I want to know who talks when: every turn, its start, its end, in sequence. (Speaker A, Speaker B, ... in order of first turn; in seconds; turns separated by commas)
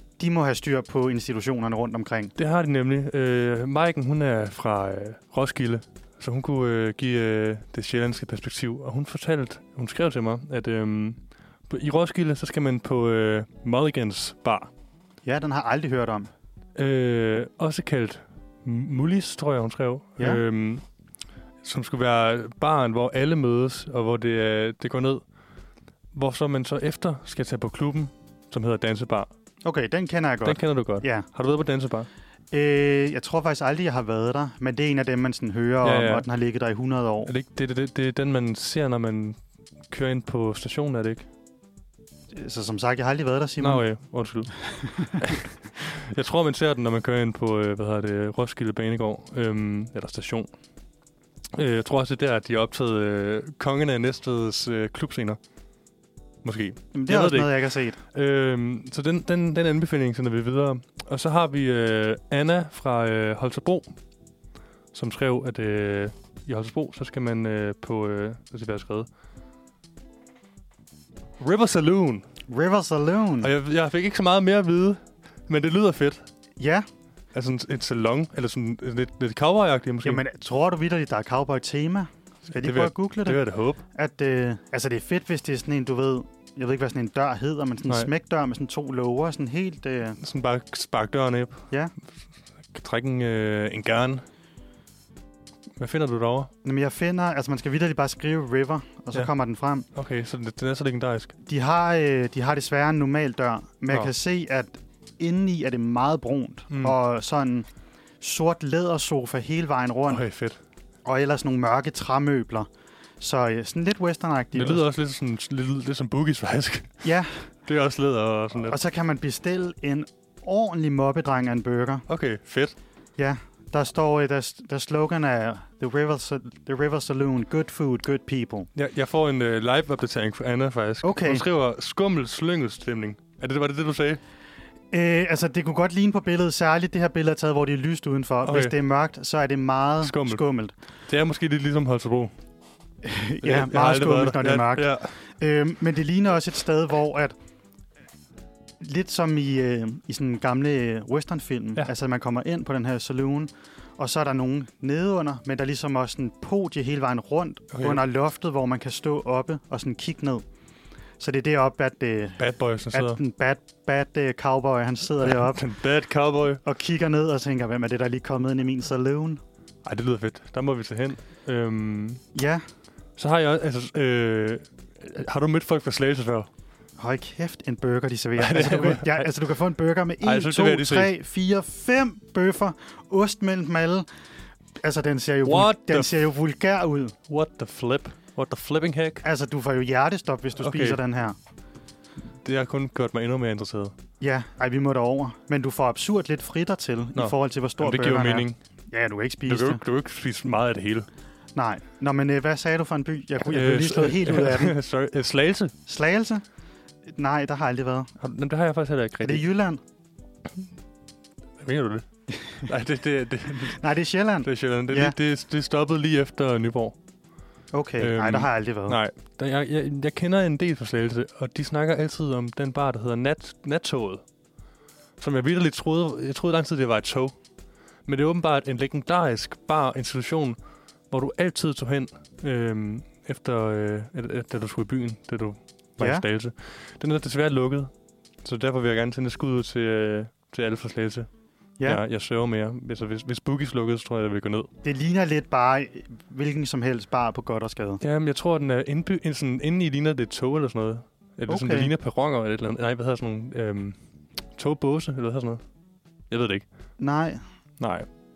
Speaker A: 0.2-2.3, Speaker B: 2.4-14.7, Speaker A: 15.2-16.3, Speaker B: 16.8-20.8, Speaker B: 21.6-25.2, Speaker B: 26.1-29.3, Speaker A: 29.6-31.3, Speaker B: 30.4-32.1, Speaker A: 32.5-37.3, Speaker B: 35.8-36.2, Speaker B: 37.3-41.3, Speaker A: 42.3-43.8, Speaker B: 43.6-50.5, Speaker A: 44.7-45.1, Speaker B: 51.5-55.4, Speaker B: 56.4-63.9, Speaker A: 56.9-58.0, Speaker B: 64.9-69.1, Speaker B: 71.4-72.2, Speaker A: 72.5-73.5, Speaker B: 73.4-76.3, Speaker A: 76.6-76.9, Speaker B: 77.3-80.2, Speaker A: 80.0-90.2, Speaker B: 82.6-83.8, Speaker B: 90.2-91.7, Speaker B: 92.7-94.2, Speaker B: 95.8-96.5, Speaker A: 96.6-99.9, Speaker B: 99.9-101.3, Speaker A: 101.5-107.7, Speaker B: 106.7-107.0, Speaker A: 108.2-110.2, Speaker B: 110.1-110.6, Speaker A: 111.0-112.7, Speaker A: 113.2-114.8, Speaker B: 114.5-117.1, Speaker A: 117.0-117.5, Speaker B: 117.7-118.8, Speaker A: 118.7-122.1, Speaker B: 122.1-122.8, Speaker A: 123.2-128.7, Speaker B: 128.8-134.2, Speaker A: 131.0-131.4, Speaker A: 134.9-140.7, Speaker B: 138.4-138.8, Speaker B: 140.0-140.4, Speaker B: 141.1-142.3, Speaker A: 143.0-147.3, Speaker B: 143.4-145.2, Speaker A: 148.8-160.4, Speaker B: 157.7-158.0, Speaker A: 161.2-165.6, Speaker B: 162.4-163.2, Speaker B: 165.2-166.6, Speaker A: 166.6-169.4, Speaker B: 169.8-172.2, Speaker A: 172.3-172.6, Speaker B: 173.2-176.5, Speaker A: 177.0-184.1, Speaker B: 178.4-179.3, Speaker B: 180.2-181.1, Speaker A: 184.8-187.2, Speaker B: 185.4-186.3, Speaker B: 187.3-189.2, Speaker A: 189.2-191.4, Speaker B: 190.6-191.0, Speaker B: 192.2-193.9, Speaker A: 194.2-199.8, Speaker B: 197.2-198.6, Speaker B: 199.5-201.1, Speaker A: 201.6-204.8, Speaker B: 203.5-205.8, Speaker A: 205.9-206.4, Speaker A: 207.2-208.1, Speaker B: 208.2-209.4, Speaker A: 209.2-209.8, Speaker B: 211.6-213.8, Speaker A: 213.7-215.2, Speaker B: 214.4-217.0, Speaker A: 217.7-219.0, Speaker B: 218.0-224.2, Speaker B: 225.2-227.4, Speaker B: 228.1-230.6, Speaker B: 231.1-237.9, Speaker A: 236.0-236.2, Speaker B: 238.4-241.3, Speaker B: 241.8-244.7, Speaker A: 244.8-248.0, Speaker B: 248.0-254.0, Speaker A: 251.5-251.9, Speaker B: 254.6-255.6, Speaker B: 256.3-256.6, Speaker A: 257.0-257.4, Speaker B: 257.8-258.1